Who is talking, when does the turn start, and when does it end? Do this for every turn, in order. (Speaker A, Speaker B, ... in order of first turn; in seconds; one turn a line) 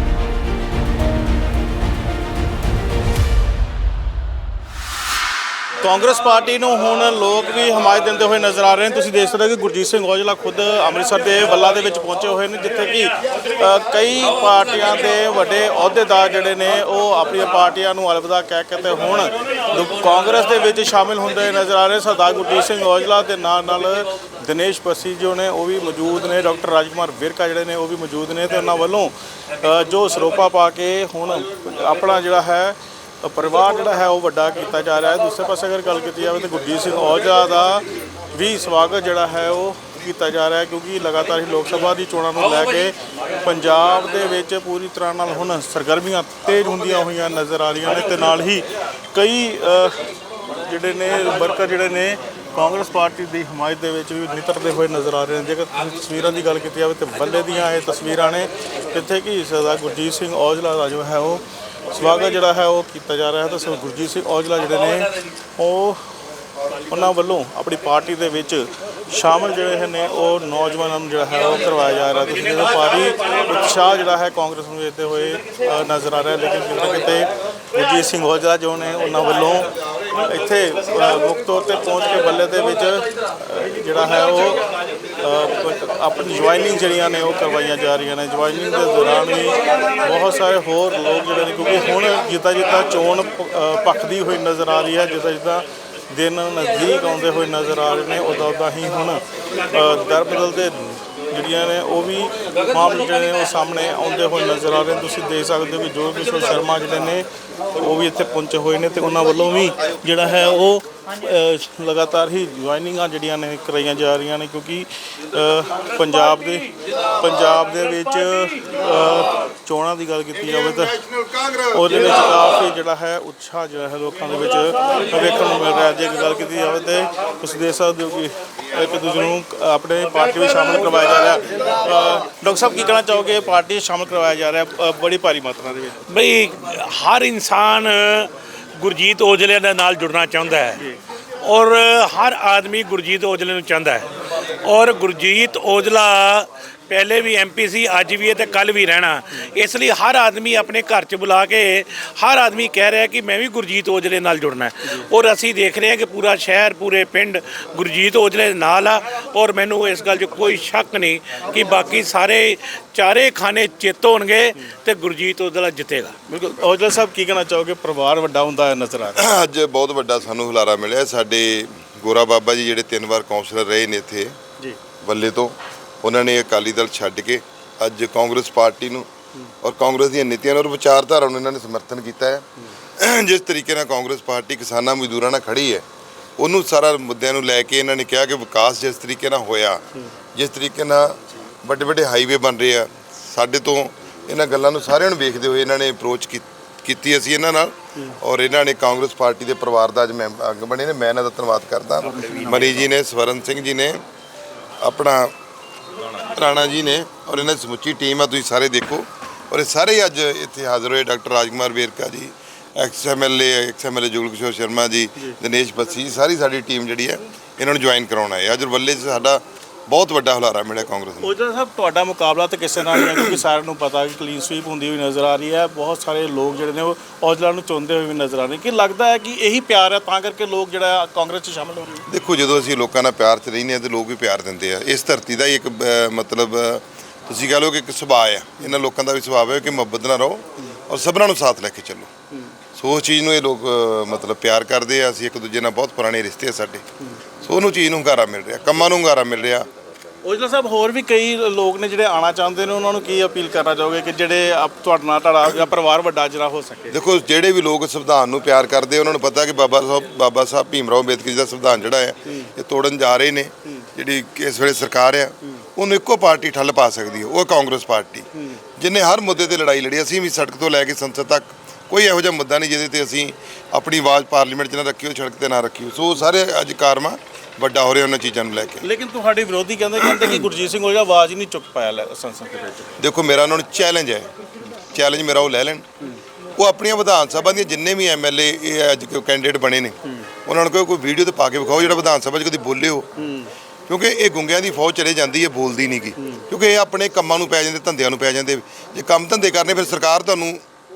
Speaker A: 5.8-66.0
Speaker A: 66.9-84.6
Speaker A: 85.2-107.2
Speaker A: 107.8-121.0
Speaker A: 121.7-136.0
Speaker B: 136.1-140.8
Speaker B: 141.4-144.1
Speaker B: 144.6-166.2
Speaker A: 166.3-169.2
Speaker C: 169.2-174.3
Speaker C: 175.0-179.1
Speaker C: 179.6-182.4
Speaker C: 183.0-185.8
Speaker C: 186.4-189.8
Speaker C: 190.3-204.0
Speaker A: 202.1-202.6
Speaker C: 204.8-205.3
Speaker C: 206.3-221.3
Speaker A: 221.2-232.1
Speaker C: 232.1-242.1
Speaker C: 242.8-246.8
Speaker C: 247.4-249.7
Speaker A: 250.2-257.0
Speaker C: 256.9-268.2
Speaker C: 268.8-278.8
Speaker A: 278.8-282.9
Speaker C: 283.0-284.3
Speaker C: 284.9-285.8
Speaker C: 286.6-289.9
Speaker C: 290.4-293.1
Speaker A: 293.2-293.5
Speaker C: 293.9-300.6